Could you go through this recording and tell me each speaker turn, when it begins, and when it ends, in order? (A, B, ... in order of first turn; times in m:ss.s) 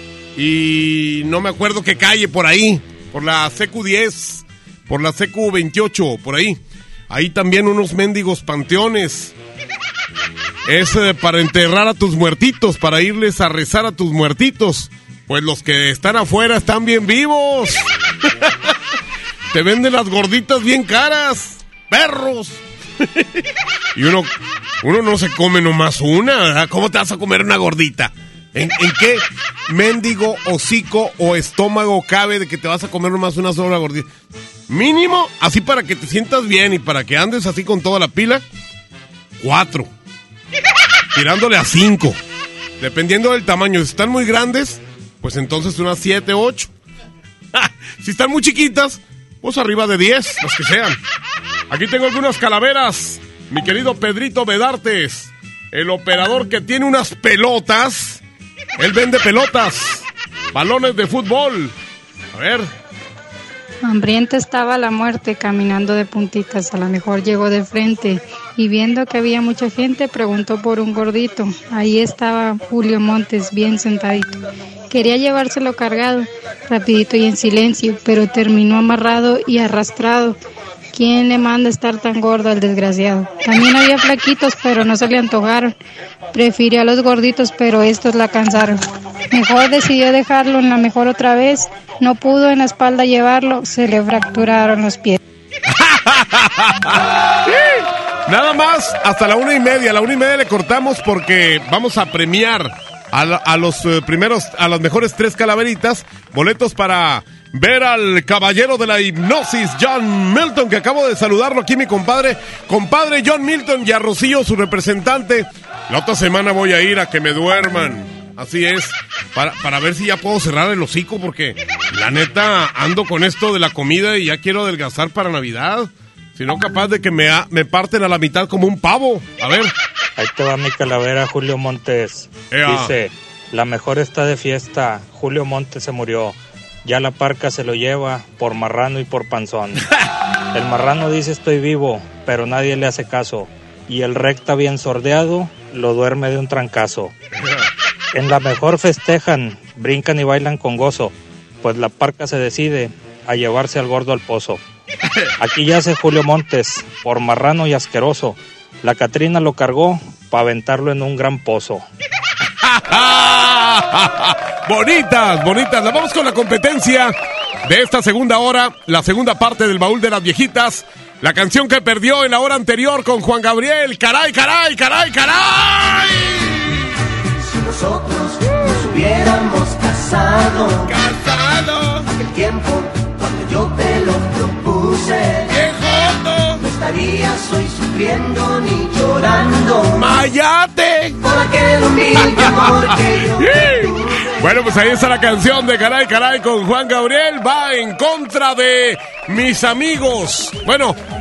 0:00.4-0:06.6 A
0:07.1-0:09.3 A
0:10.6-0:18.5 A
0:19.5-0:23.4 A
0:23.9-0:24.3 A
0:24.8-0:34.1 A
0:34.7-0:38.4 A
0:39.4-0:39.9 A
0:41.1-0:42.2 A
0:42.8-0:46.7 A
0:47.5-0:51.0 A
0:51.7-0:58.2 A
0:58.8-1:01.7 A
1:02.3-1:02.7 A
1:03.8-1:20.4 B
1:20.9-1:25.7 B
1:26.3-1:28.8 B
1:29.3-1:35.2 B
1:35.7-2:09.7 A
2:10.2-2:19.8 C
2:12.5-2:12.9 A
2:20.5-2:27.1 C
2:28.1-2:34.6 C
2:35.4-2:41.8 C
2:42.6-2:56.8 A
2:58.8-3:00.5 D
3:00.9-3:02.1 A
3:03.6-3:04.9 D
3:05.5-3:06.6 A
3:06.9-3:09.6 D
3:09.9-3:11.2 A
3:11.4-3:13.2 D
3:12.2-3:21.0 A